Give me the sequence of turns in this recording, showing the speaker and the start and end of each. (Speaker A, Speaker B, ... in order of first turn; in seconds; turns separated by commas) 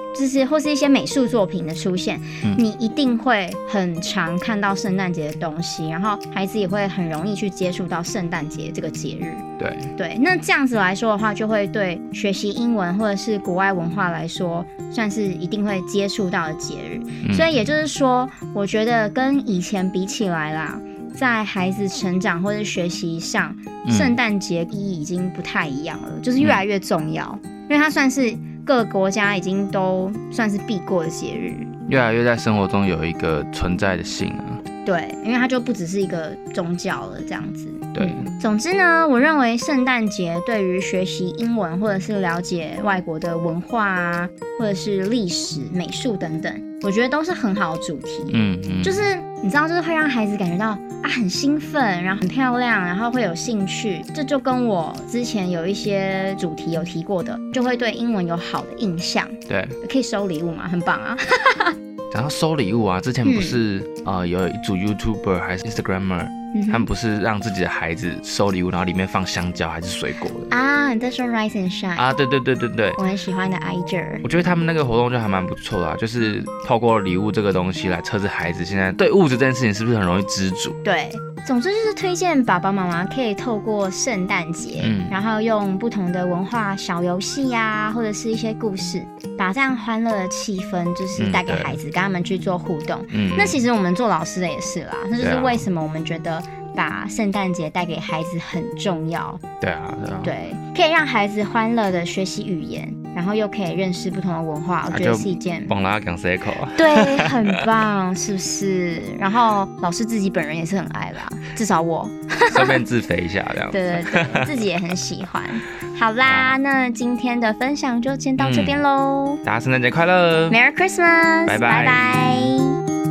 Speaker A: 0.1-9.4, Speaker B: 9.6-9.9, Speaker A: 9.9-31.7, Speaker B: 17.2-17.5, Speaker B: 23.8-24.2, Speaker B: 31.9-34.6, Speaker A: 34.8-61.8, Speaker B: 38.0-38.2, Speaker B: 48.3-49.0, Speaker B: 59.5-59.8, Speaker B: 62.1-70.5, Speaker A: 63.2-63.6, Speaker A: 66.5-66.9, Speaker A: 70.5-72.1, Speaker B: 72.0-73.0, Speaker A: 73.0-74.2, Speaker B: 74.2-80.8, Speaker A: 80.8-99.4, Speaker B: 84.8-85.2, Speaker B: 91.2-91.8, Speaker B: 93.1-93.6, Speaker B: 95.2-95.7, Speaker B: 99.6-100.3, Speaker A: 100.2-105.8, Speaker B: 104.9-107.6, Speaker A: 106.8-112.8, Speaker B: 112.5-114.5, Speaker A: 113.7-119.4, Speaker B: 116.2-116.6, Speaker B: 118.4-118.8, Speaker B: 119.4-120.6, Speaker A: 120.5-122.8, Speaker B: 121.5-122.5